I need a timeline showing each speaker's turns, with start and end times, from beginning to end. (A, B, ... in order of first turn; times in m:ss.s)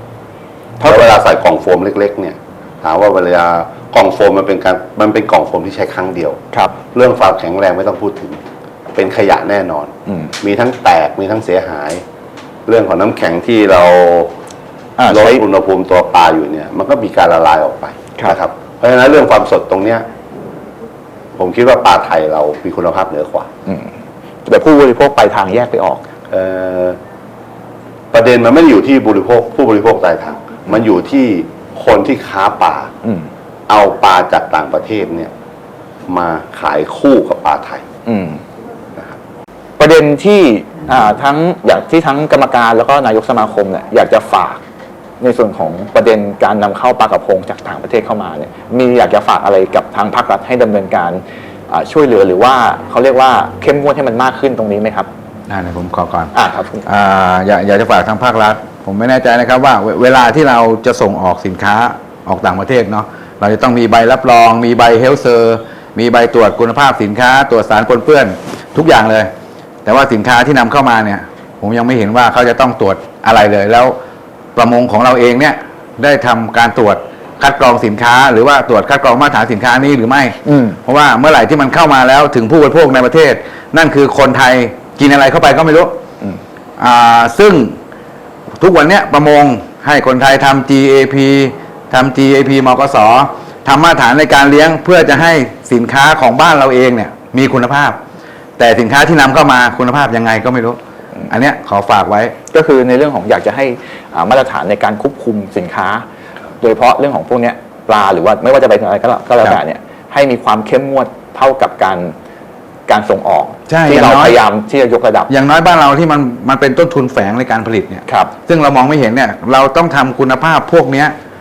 0:00.8-0:01.1 A
0:00.8-0:06.4 B
0:06.9-0:08.4 B
0:08.9-0:12.0 B
0:10.1-0:10.3 A
0:12.7-0:14.3 B
0:15.0-0:15.4 A
0:15.1-0:20.0 B
0:21.4-0:23.5 B
0:23.6-0:23.9 A
0:24.4-0:26.0 A
0:26.3-0:27.0 B
0:28.1-0:32.9 B
0:33.0-0:33.3 A
0:33.7-0:35.3 B
0:36.1-0:37.8 B
0:38.0-0:38.4 A
0:39.8-0:44.6 A
0:45.2-0:55.1 A
0:55.5-0:56.3 C
0:56.3-0:56.8 A
0:56.8-1:09.3 C
1:09.8-1:14.0 C
1:14.5-1:26.0 C
1:20.4-1:20.8 A
1:26.8-1:27.8 C
1:28.6-1:38.0 C
1:38.6-1:42.4 C
1:42.5-1:46.0 A
1:46.6-1:52.1 A
1:52.9-1:55.3 A
1:53.7-1:54.4 C
1:55.3-2:01.1 C
1:58.1-1:58.3 A